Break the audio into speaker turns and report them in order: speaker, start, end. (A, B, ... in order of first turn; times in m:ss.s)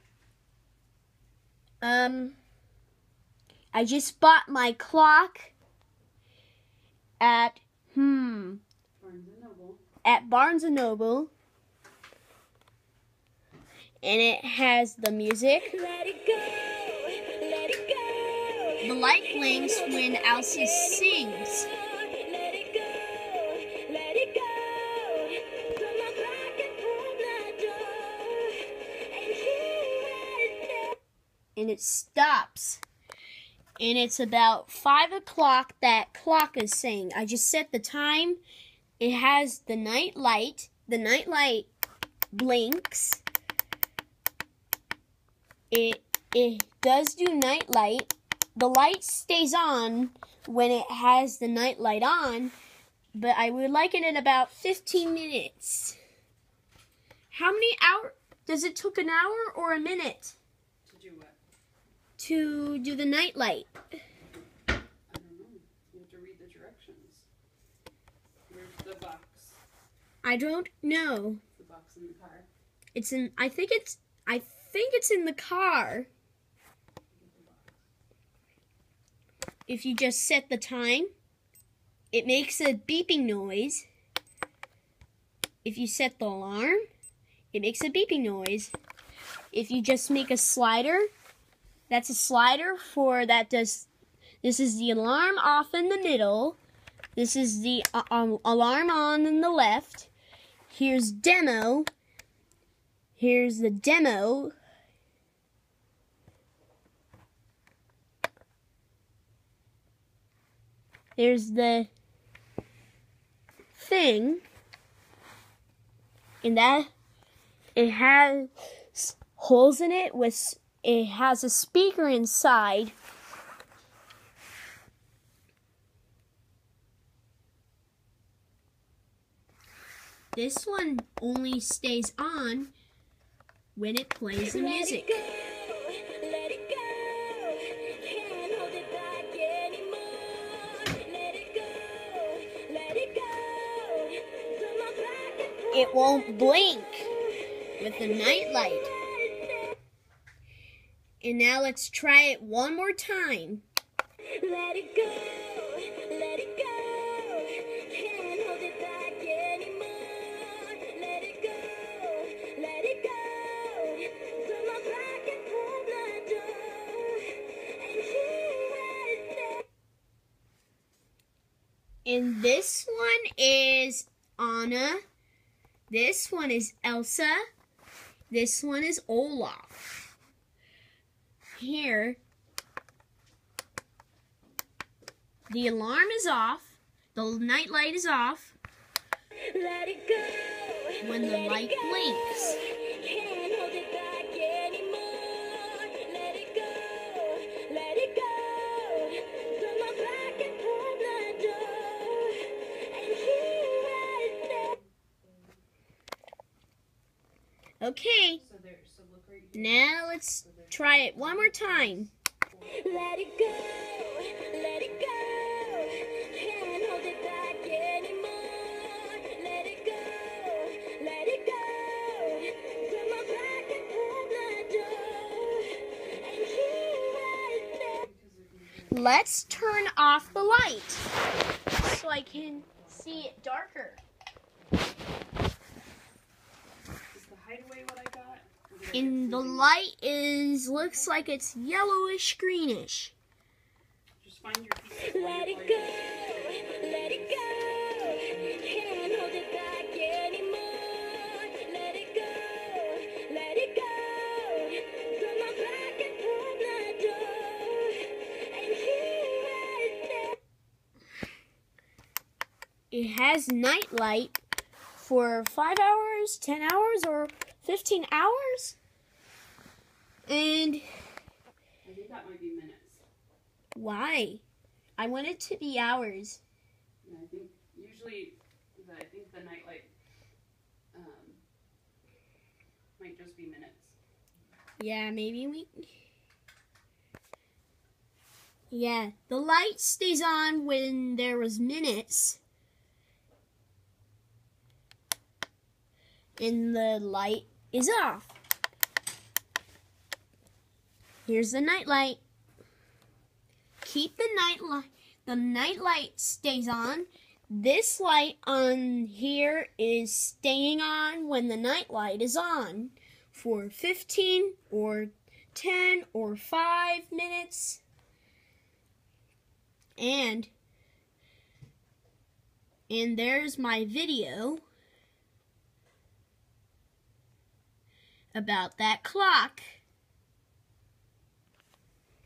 0:01.8-0:02.4 A
0:03.7-0:05.5 A
0:07.2-0:08.6 A
0:09.0-0:09.8 B
0:10.0-0:11.3 A
0:14.0-0:15.8 A
0:15.9-0:18.8 C
0:18.8-0:21.7 A
0:22.0-0:31.0 C
0:31.6-0:32.8 A
0:33.8-0:38.4 A
0:39.0-0:41.7 A
0:42.3-0:43.2 A
0:45.7-0:52.5 A
0:53.2-0:56.0 A
0:57.3-1:00.4 A
1:00.8-1:01.4 B
1:02.2-1:03.7 A
1:05.1-1:07.3 B
1:08.5-1:09.6 B
1:10.2-1:11.4 A
1:11.6-1:12.5 B
1:13.0-1:16.1 A
1:17.1-1:17.8 B
1:19.7-1:21.1 A
1:22.1-1:23.8 A
1:25.6-1:26.8 A
1:27.5-1:28.7 A
1:29.5-1:31.1 A
1:31.9-1:33.9 A
1:34.4-1:36.6 A
1:37.2-1:40.1 A
1:40.7-1:41.9 A
1:43.2-1:44.5 A
1:51.2-1:51.9 A
1:53.8-1:54.4 A
1:56.4-1:56.9 A
1:57.8-2:02.9 A
2:10.3-2:12.7 A
2:13.8-2:15.2 A
2:14.6-2:25.7 C
2:25.7-2:27.1 A
2:27.8-2:28.9 A
2:29.3-2:29.7 C
2:31.2-2:33.6 A
2:34.3-2:49.6 C
2:52.0-2:55.0 A
2:55.9-2:57.4 A
2:58.3-2:59.8 A
3:01.6-3:02.2 A
3:05.5-3:08.6 A
3:09.5-3:11.0 C
3:11.0-3:12.6 A
3:13.0-3:13.3 B
3:13.1-3:21.5 C
3:20.1-3:20.5 B
3:21.2-3:22.0 B
3:23.1-3:24.5 C
3:24.4-3:25.6 B
3:27.8-3:28.4 A
3:28.3-3:33.4 B
3:29.5-3:32.1 A
3:33.1-3:34.7 C
3:34.7-3:36.3 B
3:36.3-3:45.8 C
3:46.0-3:46.6 B
3:46.7-3:47.8 C
3:47.8-3:51.1 B
3:48.9-3:51.0 A
3:51.8-3:54.0 A
3:52.2-3:53.4 B
3:57.1-3:59.7 B
3:58.9-4:03.1 A
4:00.7-4:01.4 B
4:04.2-4:09.4 B
4:08.8-4:20.4 C
4:22.9-4:24.4 A
4:25.0-4:28.8 A
4:30.3-4:30.8 A
4:31.8-4:33.0 B
4:33.8-4:34.4 A
4:35.0-4:36.4 A
4:37.0-4:39.9 B
4:40.9-4:41.4 B
4:43.0-4:44.0 B
4:44.8-4:45.9 A
4:48.7-4:52.4 A
4:56.4-4:58.4 A
5:01.3-5:02.2 A
5:03.8-5:17.8 A
5:20.0-5:20.5 A
5:22.9-5:24.6 A
5:28.3-5:29.6 A